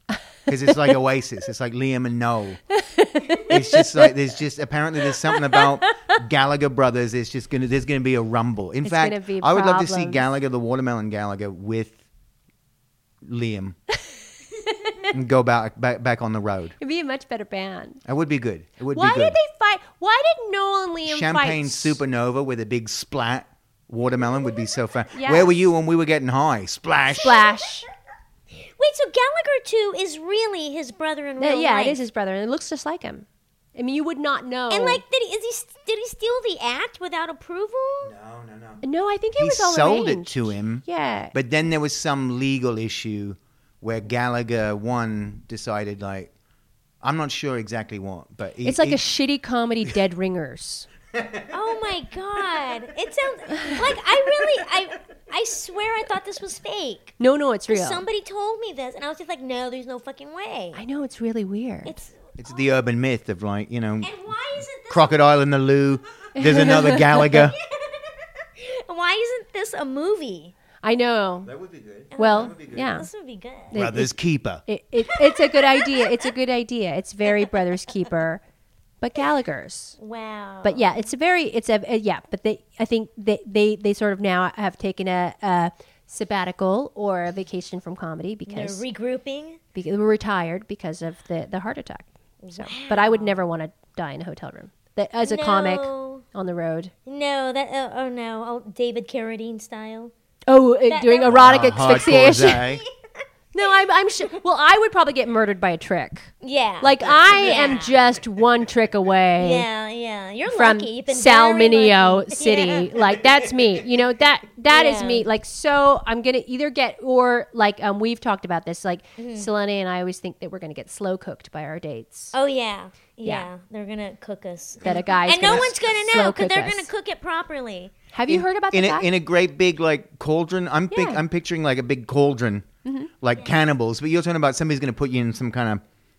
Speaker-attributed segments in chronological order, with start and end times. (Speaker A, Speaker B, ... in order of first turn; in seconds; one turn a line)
Speaker A: 0.5-2.6
Speaker B: 2.7-4.1
Speaker A: 3.5-12.0
Speaker B: 5.4-6.1
Speaker B: 8.8-10.2
Speaker A: 13.2-13.8
Speaker A: 15.1-16.8
Speaker B: 16.8-18.0
Speaker A: 18.0-19.4
Speaker B: 18.9-22.0
Speaker A: 21.1-27.4
Speaker B: 25.1-25.5
Speaker C: 27.2-27.7
Speaker B: 27.2-27.9
Speaker C: 28.6-32.0
Speaker B: 31.4-35.0
Speaker C: 34.7-38.1
Speaker A: 38.0-38.8
Speaker B: 38.8-41.3
Speaker A: 39.4-46.3
Speaker A: 47.0-49.0
Speaker B: 48.6-50.9
Speaker A: 51.1-51.5
Speaker C: 51.5-57.1
Speaker B: 57.2-58.0
Speaker C: 57.7-60.8
Speaker B: 60.7-62.0
Speaker C: 61.8-62.7
Speaker A: 62.4-64.1
Speaker C: 64.0-65.2
Speaker A: 64.8-67.5
Speaker B: 66.3-67.2
Speaker C: 66.8-70.5
Speaker B: 70.8-71.5
Speaker A: 71.4-73.0
Speaker C: 72.1-73.7
Speaker B: 72.2-73.1
Speaker B: 73.7-78.4
Speaker A: 73.7-74.6
Speaker C: 75.1-76.3
Speaker C: 77.3-77.7
Speaker B: 79.0-80.0
Speaker C: 80.0-81.0
Speaker B: 80.6-88.8
Speaker C: 88.5-89.6
Speaker B: 89.7-96.9
Speaker C: 92.4-93.4
Speaker C: 95.2-96.2
Speaker C: 97.1-100.1
Speaker B: 100.5-102.6
Speaker C: 100.9-102.9
Speaker A: 101.3-102.8
Speaker B: 103.5-109.7
Speaker C: 106.4-108.0
Speaker C: 109.4-113.0
Speaker B: 110.5-122.3
Speaker C: 114.7-115.2
Speaker C: 119.2-119.5
Speaker C: 122.3-127.9
Speaker B: 124.8-126.9
Speaker B: 128.1-129.1
Speaker A: 128.3-132.7
Speaker B: 130.9-131.2
Speaker B: 132.8-133.1
Speaker A: 133.2-135.8